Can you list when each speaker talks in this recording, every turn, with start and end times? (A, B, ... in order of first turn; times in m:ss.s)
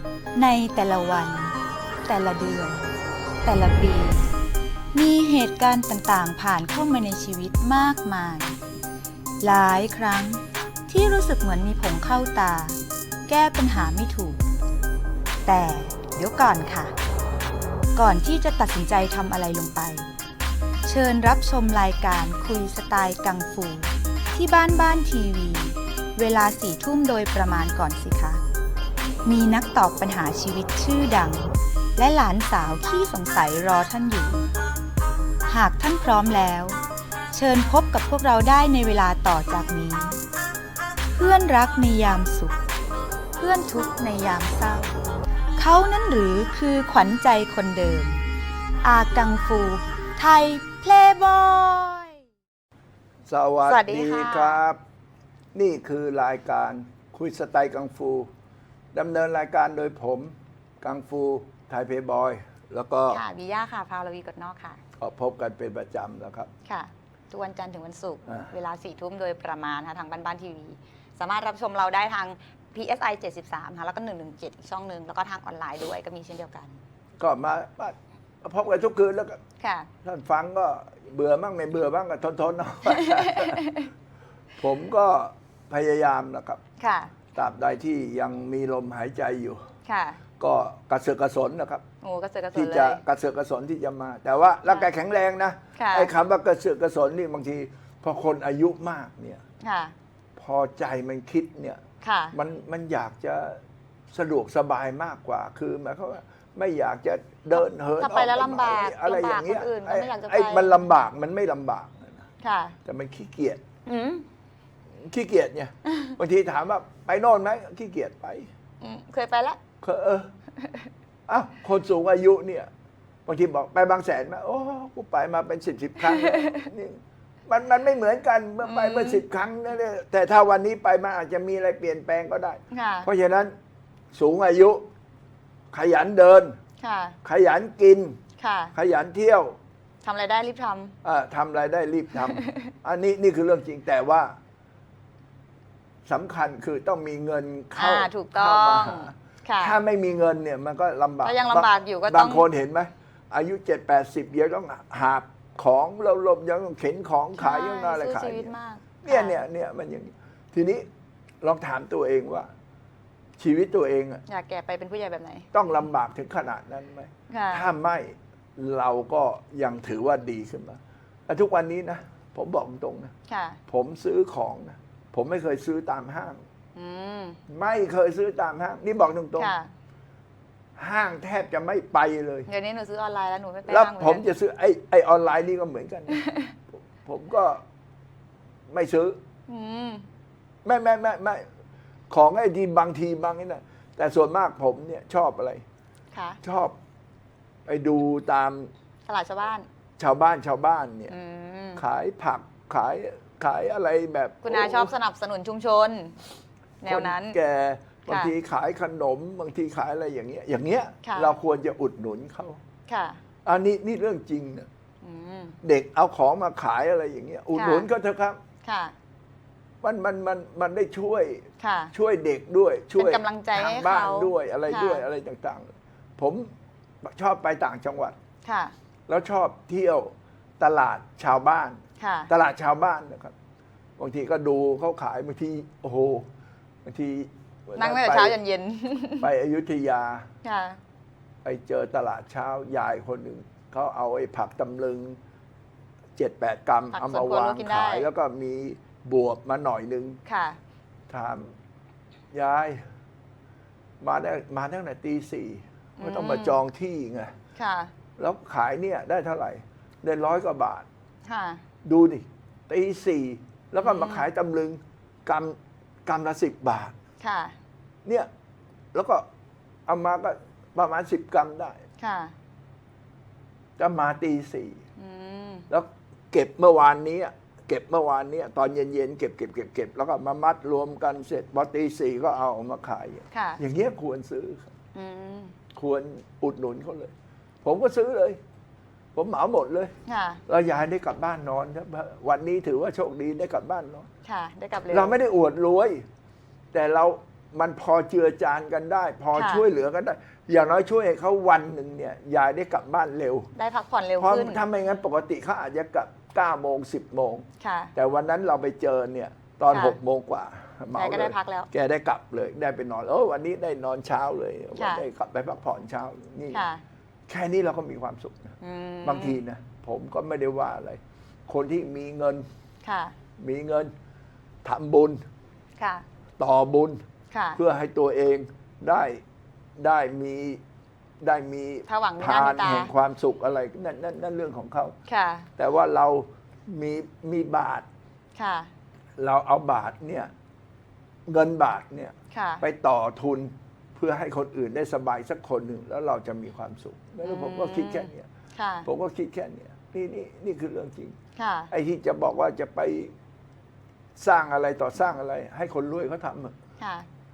0:00.4-0:01.5 A
0:00.4-0:01.3 B
0:02.1-0:02.8 A
0:02.1-0:02.7 B
0:03.4-0:04.2 A
0:04.9-0:08.5 A
0:05.4-0:06.5 B
0:09.4-0:12.8 A
0:09.9-0:10.3 B
0:13.3-0:14.4 A
0:15.5-0:16.9 A
0:18.0-0:20.1 A
0:20.9-0:28.4 A
0:29.2-0:34.4 A
0:35.5-0:36.8 A
0:37.3-0:40.2 A
0:41.2-0:42.5 A
0:43.4-0:44.9 A
0:45.6-0:48.2 A
0:48.8-0:51.5 A
0:50.6-0:50.9 B
0:51.6-0:52.1 B
0:53.3-0:54.8 C
0:53.6-0:54.6 B
0:55.5-0:58.3 C
0:58.9-1:03.2 C
1:03.1-1:04.8 B
1:05.0-1:06.5 C
1:06.6-1:16.8 B
1:08.2-1:08.5 C
1:17.2-1:19.4 C
1:19.6-1:19.9 B
1:20.0-1:23.7 C
1:22.9-1:23.9 B
1:24.6-1:26.6 C
1:26.8-1:27.1 B
1:27.3-1:29.6 C
1:29.8-1:30.2 B
1:30.4-1:31.8 C
1:32.0-1:33.0 B
1:32.5-1:39.4 C
1:35.8-1:36.1 B
1:39.6-1:39.9 B
1:40.4-1:41.8 C
1:42.0-1:42.4 B
1:42.3-1:43.6 C
1:44.1-1:52.2 C
1:47.5-1:50.8 B
1:52.4-1:52.8 B
1:52.8-1:53.6 C
1:53.8-1:54.2 B
1:54.9-1:58.5 C
1:58.8-1:59.6 B
1:59.8-2:00.3 C
2:01.3-2:02.7 C
2:03.2-2:13.5 C
2:06.2-2:06.5 B
2:08.6-2:09.2 B
2:12.7-2:13.1 B
2:14.1-2:14.9 C
2:15.7-2:16.6 C
2:16.8-2:17.2 B
2:17.2-2:18.2 C
2:18.4-2:18.7 B
2:18.7-2:19.6 C
2:20.0-2:20.9 B
2:21.0-2:24.4 C
2:26.0-2:40.9 C
2:27.8-2:29.8 B
2:31.2-2:32.5 B
2:37.4-2:39.4 B
2:41.4-2:42.5 C
2:43.4-2:44.2 C
2:44.3-2:45.5 B
2:45.5-2:53.1 C
2:47.3-2:47.6 B
2:53.3-2:53.6 B
2:53.7-2:56.4 C
2:56.7-2:57.4 B
2:57.5-2:59.5 C
2:59.4-2:59.7 B
3:00.8-3:02.5 C
3:02.5-3:04.2 B
3:03.7-3:06.2 C
3:06.1-3:06.5 B
3:07.0-3:07.6 C
3:08.7-3:09.2 C
3:09.5-3:10.0 B
3:10.6-3:11.4 C
3:12.1-3:15.6 C
3:16.1-3:16.4 B
3:16.4-3:16.8 C
3:17.6-3:18.7 C
3:19.0-3:19.7 B
3:20.0-3:21.1 C
3:21.1-3:21.8 B
3:21.8-3:24.9 C
3:24.4-3:26.2 B
3:26.8-3:27.4 B
3:26.8-3:32.6 C
3:28.1-3:28.3 B
3:31.0-3:31.3 B
3:32.9-3:33.2 B
3:33.4-3:34.7 C
3:35.0-3:35.6 B
3:35.6-3:38.4 C
3:37.5-3:37.9 B
3:38.6-3:38.9 B
3:39.8-3:46.5 C
3:41.6-3:41.9 B
3:43.0-3:45.0 B
3:47.0-3:48.2 C
3:48.4-3:48.7 B
3:49.1-3:53.3 C
3:52.0-3:52.3 B
3:54.0-3:56.3 C
3:56.8-3:58.4 C
3:57.7-3:59.3 B
3:59.2-4:00.3 C
4:00.4-4:00.8 B
4:01.4-4:05.2 C
4:06.2-4:10.2 C
4:06.9-4:08.1 B
4:10.2-4:10.6 B
4:11.1-4:11.5 C
4:12.3-4:12.8 C
4:14.0-4:17.3 C
4:16.0-4:16.6 B
4:17.6-4:17.9 B
4:18.2-4:20.9 C
4:21.2-4:21.6 B
4:21.8-4:26.9 C
4:23.8-4:24.2 B
4:27.2-4:27.5 B
4:28.9-4:29.2 C
4:29.8-4:31.8 C
4:32.0-4:32.3 B
4:33.8-4:34.8 C
4:35.0-4:35.7 B
4:35.7-4:44.7 C
4:43.3-4:43.6 B
4:44.9-4:45.5 B
4:45.7-4:48.4 C
4:49.1-4:49.9 C
4:50.0-4:50.4 B
4:50.5-4:54.1 C
4:54.2-4:55.2 B
4:54.9-4:56.0 C
4:56.7-5:03.5 C
4:59.3-4:59.6 B
5:03.5-5:04.6 B
5:04.2-5:16.6 C
5:07.6-5:07.9 B
5:09.7-5:10.0 B
5:10.9-5:11.7 B
5:14.8-5:15.0 B
5:16.5-5:16.8 B
5:17.3-5:22.4 C
5:18.6-5:19.4 B
5:22.8-5:23.1 B
5:23.4-5:23.9 C
5:24.6-5:25.2 C
5:25.8-5:26.0 B
5:26.4-5:27.0 C
5:27.3-5:27.6 B
5:27.5-5:29.2 C
5:29.8-5:30.6 C
5:31.2-5:35.0 C
5:31.9-5:32.9 B
5:35.1-5:35.5 B
5:35.6-5:37.9 C
5:38.3-5:38.7 B
5:39.2-5:40.3 C
5:41.3-5:48.3 C
5:42.3-5:42.6 B
5:47.2-5:48.9 B
5:48.8-5:51.2 C
5:51.4-5:51.7 B
5:51.7-5:53.1 C
5:54.2-5:56.6 C
5:56.8-5:57.1 B